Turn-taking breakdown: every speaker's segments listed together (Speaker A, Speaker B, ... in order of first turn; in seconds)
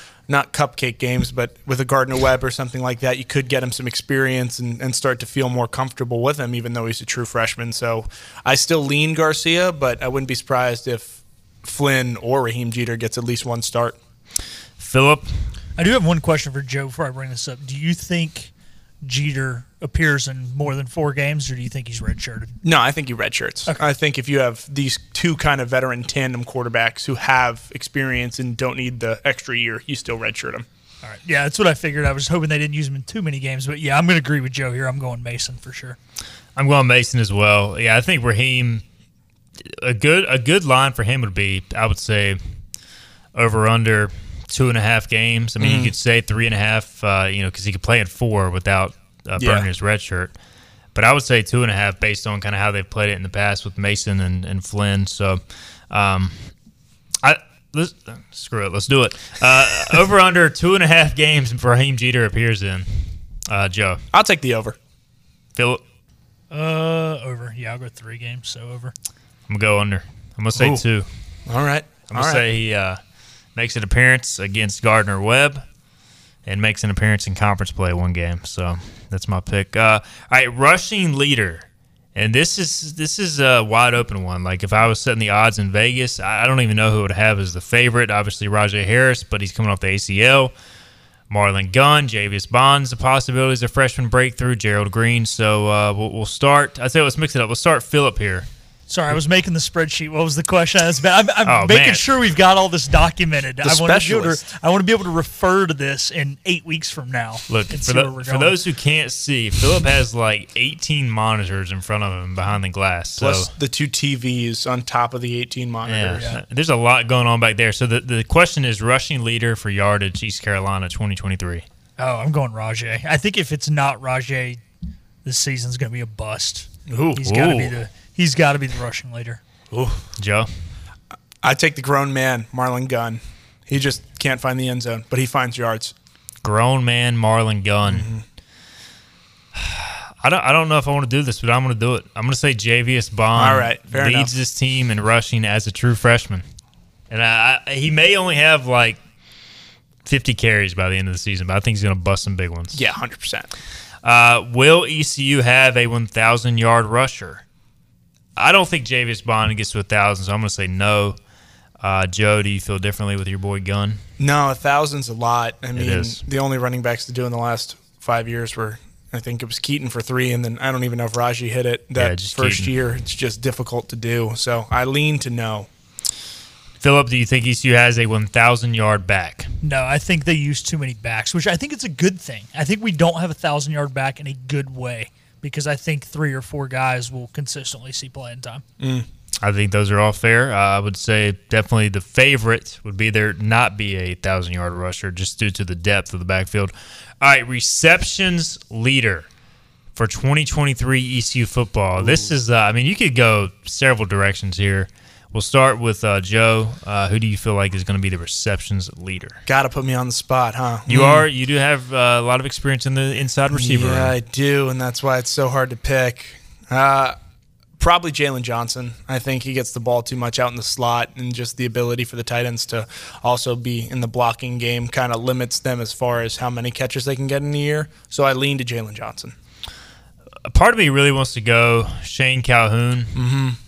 Speaker A: 0.3-14.0, 22.6-30.7, 45.6-45.9, 49.4-49.7, 64.1-64.8, 70.5-70.8, 71.5-72.4, 103.6-104.4, 113.2-116.3, 126.9-127.2, 129.7-130.0, 131.4-135.9, 137.9-138.2, 143.3-144.3, 152.7-153.5, 164.2-175.7, 188.8-189.1, 209.5-211.3, 213.5-217.2, 217.8-229.3, 233.2-233.6
Speaker B: 14.8-15.4, 36.6-38.8, 39.6-42.4, 43.4-50.3, 51.0-56.5, 57.2-64.0, 65.6-65.8, 69.5-71.1, 72.1-73.0, 73.5-75.7, 76.5-90.5, 91.3-98.5, 101.5-102.0, 107.5-113.5, 115.8-121.7, 127.3-127.8, 130.2-130.5, 136.4-138.1, 139.5-146.4, 147.1-149.0, 150.1-152.8, 154.0-157.4, 158.4-161.2, 161.8-164.0, 165.8-166.2, 172.0-172.7, 176.8-179.5, 189.4-199.3, 199.9-209.4, 210.9-214.1, 230.4-233.2
Speaker C: 15.8-18.5, 19.0-22.6, 31.0-36.0, 66.5-68.9, 98.9-108.5, 122.0-124.6, 125.2-129.4, 179.6-188.6